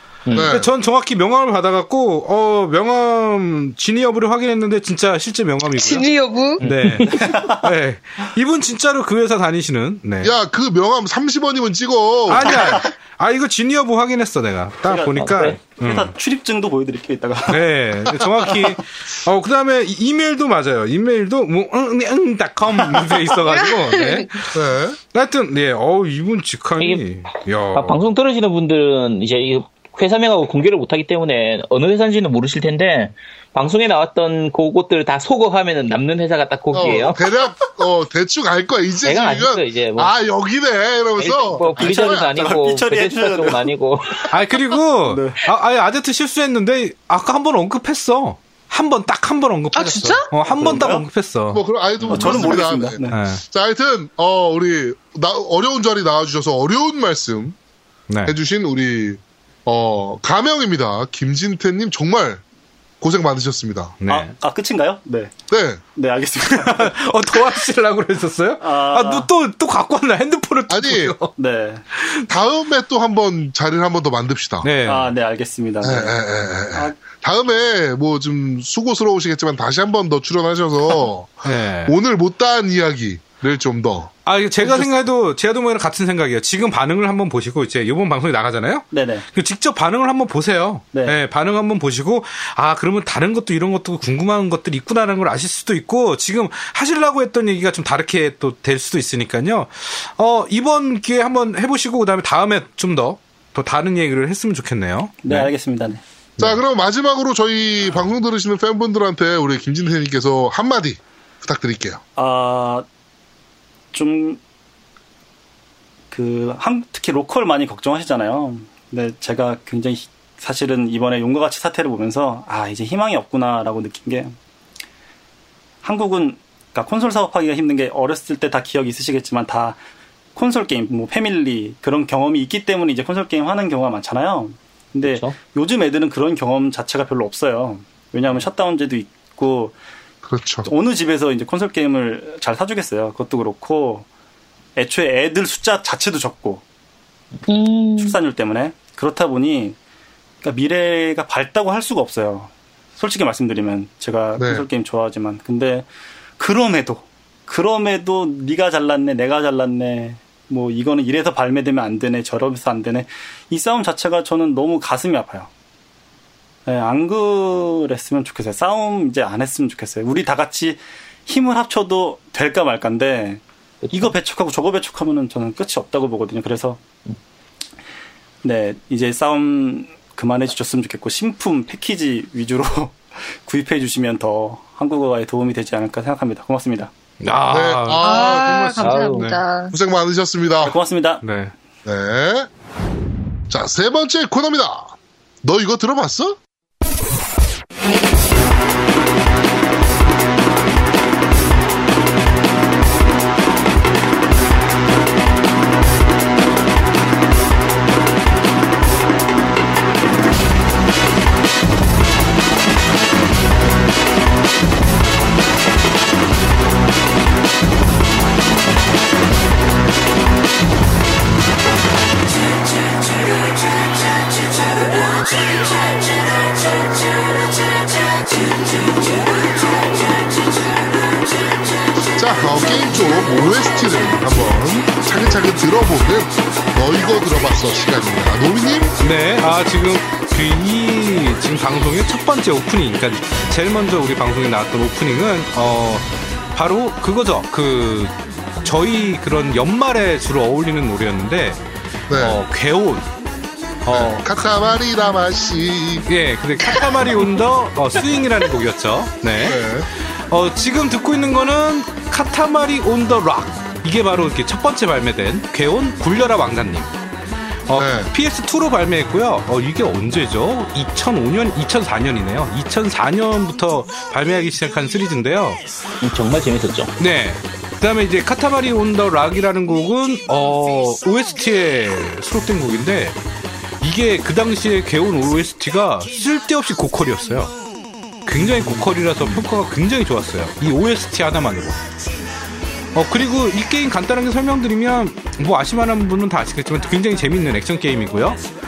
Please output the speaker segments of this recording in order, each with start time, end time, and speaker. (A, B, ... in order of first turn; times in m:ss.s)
0:00.3-0:00.6 A
0:00.4-0:00.7 B
0:00.4-0:10.3 C
0:05.7-0:06.6 D
0:06.6-0:07.2 A
0:07.1-0:07.6 E
0:10.2-0:12.8 B
0:12.3-0:16.1 C
0:14.9-0:17.6 E
0:15.2-0:15.6 A
0:17.5-0:24.6 C
0:18.2-0:18.6 E
0:23.5-0:24.2 D
0:24.5-0:25.0 B
0:25.1-0:28.0 C
0:27.7-0:37.2 A
0:36.7-0:42.4 B
0:39.0-0:40.1 A
0:41.2-0:44.3 A
0:41.8-0:43.7 E
0:44.3-0:51.6 C
0:45.0-0:45.4 E
0:49.7-0:50.3 D
0:50.4-0:51.1 E
0:51.5-0:57.6 B
0:52.1-0:53.2 E
0:53.1-0:53.4 C
0:58.1-0:58.4 C
0:58.3-1:02.4 B
1:03.0-1:04.0 B
1:04.0-1:04.3 C
1:04.1-1:05.3 E
1:05.5-1:05.8 B
1:06.0-1:06.9 E
1:06.5-1:11.3 C
1:08.6-1:09.3 E
1:10.7-1:11.2 B
1:11.4-1:11.8 E
1:12.0-1:12.3 C
1:12.3-1:14.7 B
1:14.6-1:15.1 C
1:14.8-1:16.2 E
1:15.8-1:24.1 B
1:16.7-1:17.0 E
1:21.4-1:22.0 C
1:24.3-1:45.5 C
1:28.9-1:29.3 E
1:30.9-1:31.2 E
1:45.2-1:46.0 E
1:46.4-1:52.0 B
1:52.2-1:52.9 E
1:53.9-1:54.4 E
1:56.1-2:04.4 E
2:05.8-2:09.8 E
2:10.4-2:19.8 E
2:15.0-2:15.4 A
2:20.2-2:20.7 B
2:20.6-2:24.1 E
2:24.8-2:26.6 E
2:27.5-2:28.2 D
2:28.0-2:29.8 E
2:30.4-2:35.9 E
2:34.4-2:34.6 B
2:36.4-2:45.5 E
2:46.7-2:56.8 E
2:53.8-2:54.1 A
2:58.4-3:06.9 E
3:07.2-3:09.4 C
3:07.5-3:09.0 B
3:08.0-3:09.7 D
3:08.8-3:09.3 A
3:09.7-3:10.8 B
3:10.6-3:11.2 E
3:11.2-3:11.5 C
3:11.8-3:12.5 B
3:13.5-3:16.4 B
3:52.2-3:59.0 B
3:59.0-4:11.6 C
4:12.1-4:12.4 B
4:12.1-4:13.1 C
4:13.8-4:14.2 C
4:13.9-4:16.1 B
4:16.1-4:19.6 C
4:19.4-4:19.9 B
4:20.3-4:26.9 C
4:27.7-4:35.6 C
4:27.8-4:28.1 B
4:36.0-4:36.9 A
4:37.0-4:43.2 C
4:43.8-4:47.5 C
4:48.3-4:51.8 C
4:52.9-4:58.4 C